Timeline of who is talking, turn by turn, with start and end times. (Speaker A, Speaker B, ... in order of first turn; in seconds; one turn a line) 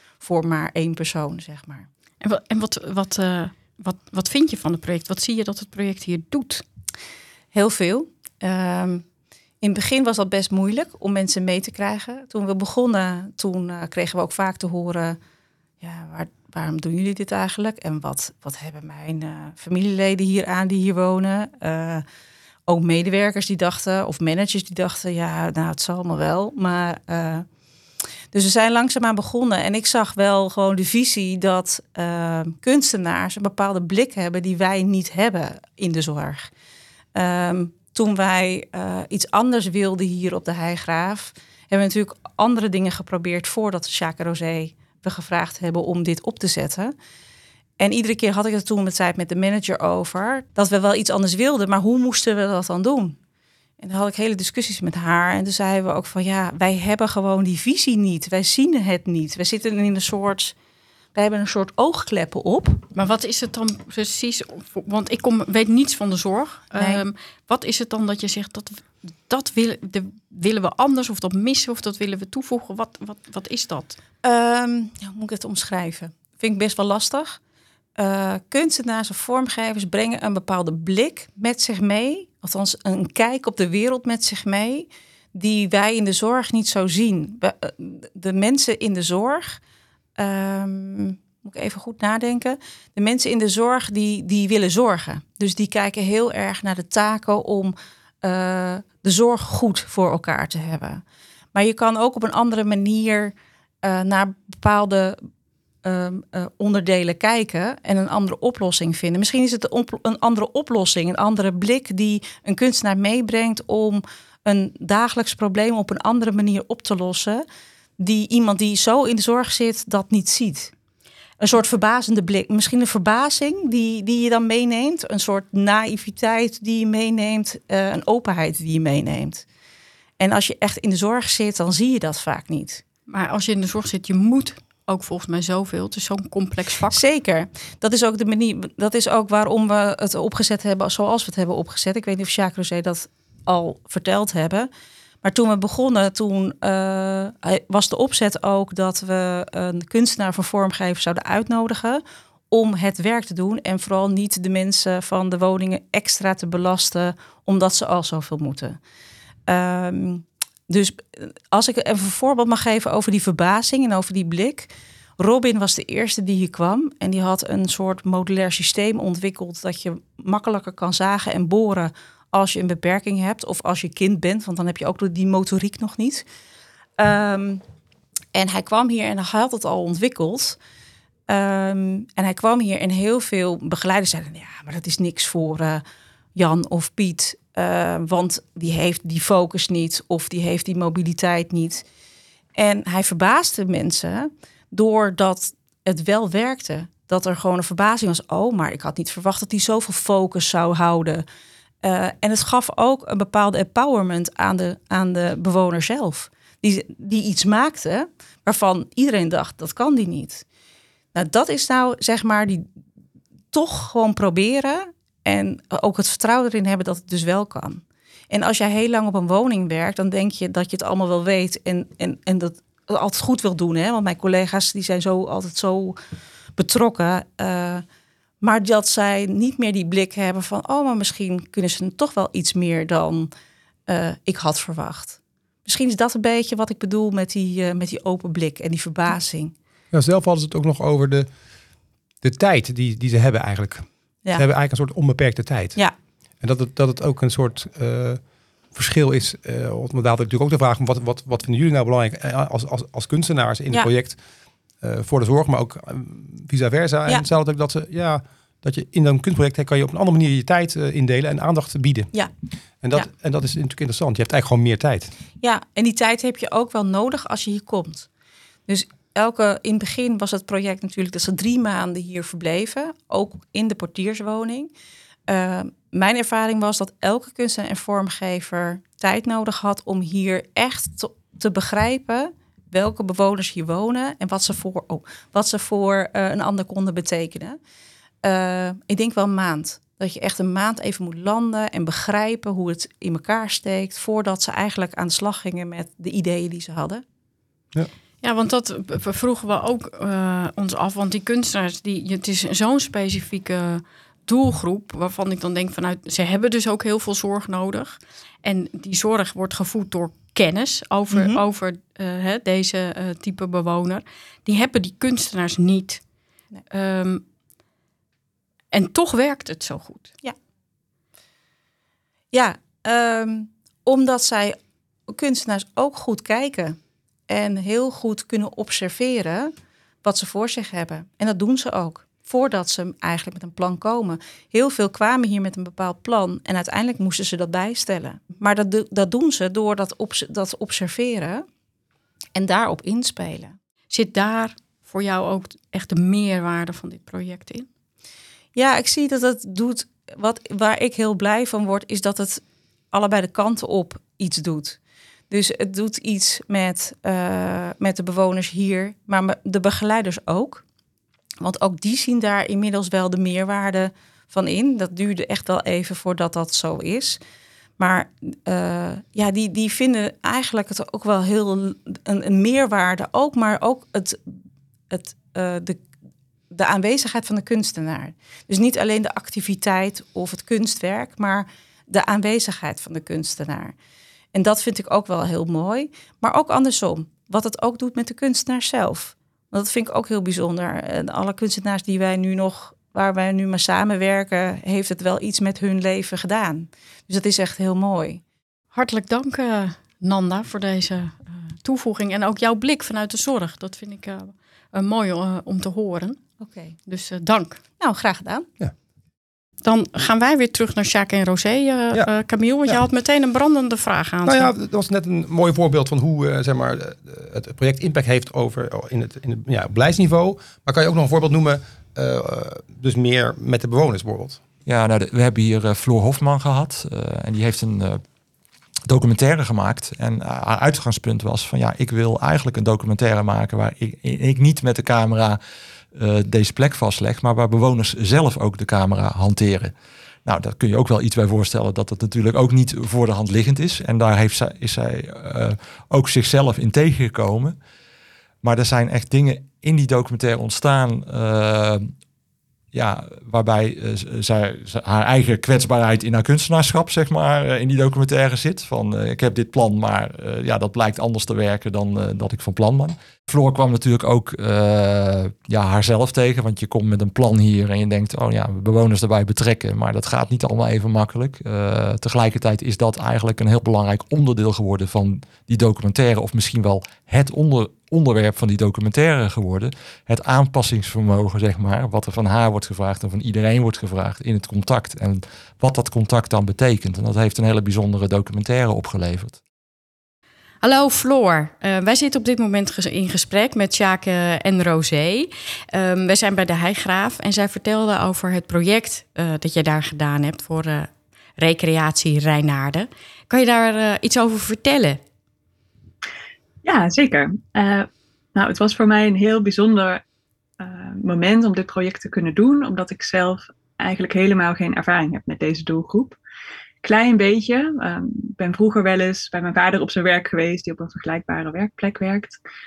Speaker A: 0.2-1.9
Speaker B: 2.2-6.6
Speaker A: 7.5-9.0
Speaker A: 9.6-15.2
Speaker A: 15.8-22.0
Speaker A: 22.6-27.4
Speaker A: 28.3-36.5
Speaker A: 37.1-46.9
Speaker A: 47.8-53.2
Speaker A: 53.8-60.5
Speaker A: 61.1-62.9
Speaker B: 62.9-74.0
Speaker A: 66.7-67.0
Speaker A: 74.2-77.4
Speaker A: 78.0-89.6
Speaker A: 90.2-101.0
Speaker A: 101.5-105.2
Speaker A: 105.8-117.4
Speaker A: 118.0-120.7
Speaker A: 121.4-129.4
Speaker A: 130.2-132.8
Speaker B: 133.1-137.0
Speaker A: 136.9-144.7
Speaker A: 145.2-158.8
Speaker A: 159.4-176.2
Speaker A: 177.0-177.6
Speaker A: 178.3-180.6
Speaker A: 181.3-185.8
Speaker A: 186.3-191.8
Speaker A: 192.5-201.2
Speaker A: 201.8-210.4
Speaker A: 211.1-212.7
Speaker A: 213.5-226.0
Speaker A: 226.6-227.8
Speaker A: 228.4-233.3
Speaker A: 233.8-239.5
Speaker C: 239.9-241.3
Speaker C: 242.2-245.8
Speaker C: 246.4-248.2
Speaker C: 248.7-254.2
Speaker C: 254.8-262.1
Speaker C: 262.8-265.1
Speaker A: 265.4-268.1
Speaker A: 268.7-274.7
Speaker A: 275.3-287.6
Speaker A: 288.2-297.0
Speaker B: 298.2-316.0
Speaker A: 311.1-311.4
Speaker B: 316.7-317.2
Speaker B: 318.7-320.1
Speaker A: 322.3-341.4
Speaker A: 342.3-343.6
Speaker B: 343.9-347.7
Speaker A: 348.5-354.8
Speaker A: 355.3-360.6
Speaker A: 361.4-367.2
Speaker A: 367.8-374.2
Speaker A: 374.9-375.8
Speaker A: 376.5-383.7
Speaker A: 384.3-398.2
Speaker B: 398.7-406.2
Speaker A: 406.4-406.8
Speaker B: 406.9-407.6
Speaker A: 407.8-408.5
Speaker B: 409.6-414.5
Speaker C: 414.2-424.4
Speaker D: 424.6-428.0
Speaker D: 428.9-435.4
Speaker D: 435.9-439.7
Speaker D: 440.2-447.6
Speaker D: 448.4-451.9
Speaker D: 452.7-489.4
Speaker B: 490.6-505.0
Speaker E: 506.6-510.0
Speaker E: 510.6-516.2
Speaker E: 516.8-522.4